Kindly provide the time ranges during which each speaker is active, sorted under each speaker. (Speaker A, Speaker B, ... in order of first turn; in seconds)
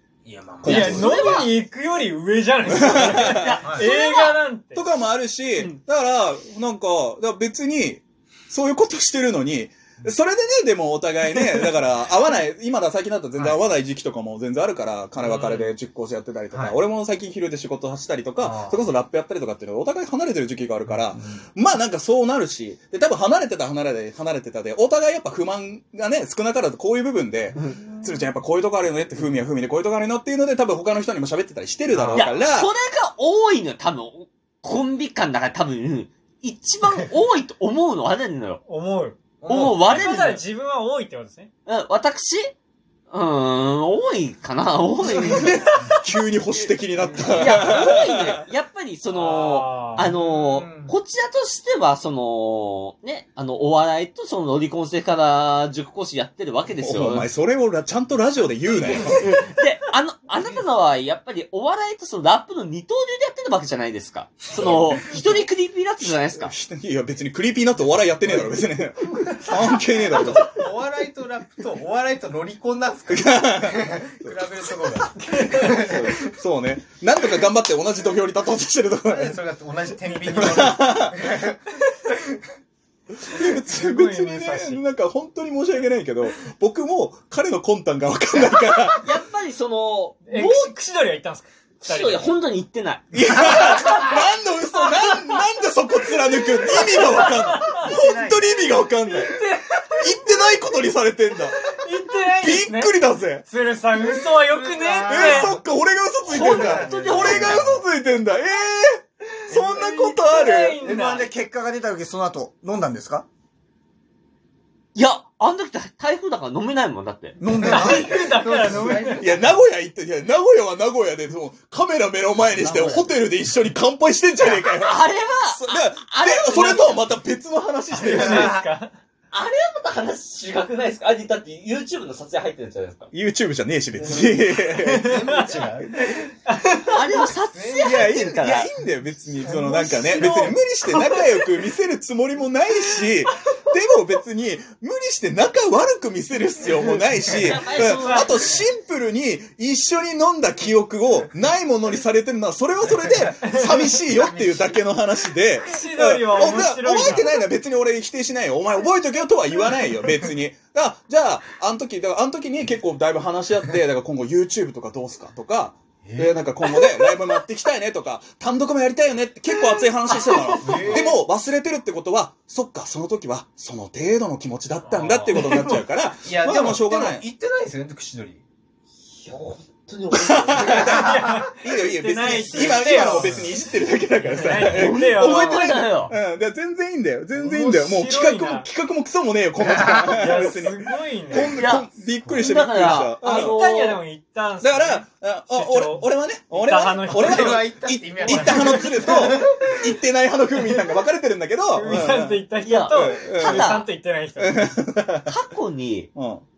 Speaker A: 0.3-1.1, 39.4-39.8, 50.7-50.9, 70.6-75.1, 79.1-81.4, 117.6-119.3, 135.1-135.9, 137.5-138.0, 139.4-140.3, 176.3-178.4, 197.1-199.7
Speaker B: 0.6-1.5, 2.7-3.6, 4.7-32.7, 46.0-48.2, 56.8-59.4, 64.6-65.0, 66.0-70.7, 73.1-79.4, 80.2-81.2, 83.2-89.1, 93.1-99.4, 100.0-101.5, 102.4-103.4, 105.0-110.8, 119.2-128.7, 133.1-135.3, 137.8-177.2, 180.1-181.1, 181.6-193.6, 194.6-203.8, 204.4-205.3, 206.2-206.4
Speaker C: 0.7-4.8, 31.9-32.3, 38.7-39.2, 39.7-41.5, 49.1-50.1, 75.2-76.0, 83.3-84.8, 90.2-92.3, 96.5-98.0, 99.0-100.2, 101.5-105.6, 109.5-111.3, 117.6-119.3, 127.9-128.9, 134.7-135.6, 136.1-137.3, 140.2-141.6, 147.7-148.6, 153.2-154.0, 155.6-157.3, 166.7-167.1, 169.6-171.1, 174.9-175.8, 180.7-183.6, 184.2-185.8, 187.3-188.7, 189.9-191.7, 192.9-197.7, 198.2-199.3, 200.6-200.9, 201.7-204.8
Speaker D: 0.7-1.5, 2.8-4.4, 15.2-15.6, 32.1-38.6, 39.5-40.4, 41.7-42.5, 43.1-45.9, 47.3-57.3, 58.9-66.5, 89.0-90.7, 91.8-93.0, 93.6-94.1, 106.3-107.8, 115.0-117.4, 124.6-127.1, 129.3-133.1, 134.0-134.3, 136.9-138.7, 146.8-148.6, 170.3-171.2, 179.1-181.2, 184.6-186.2, 191.5-194.0, 202.6-203.9, 205.3-206.1
Speaker E: 97.9-98.6, 110.8-113.3, 117.4-118.3, 122.6-123.1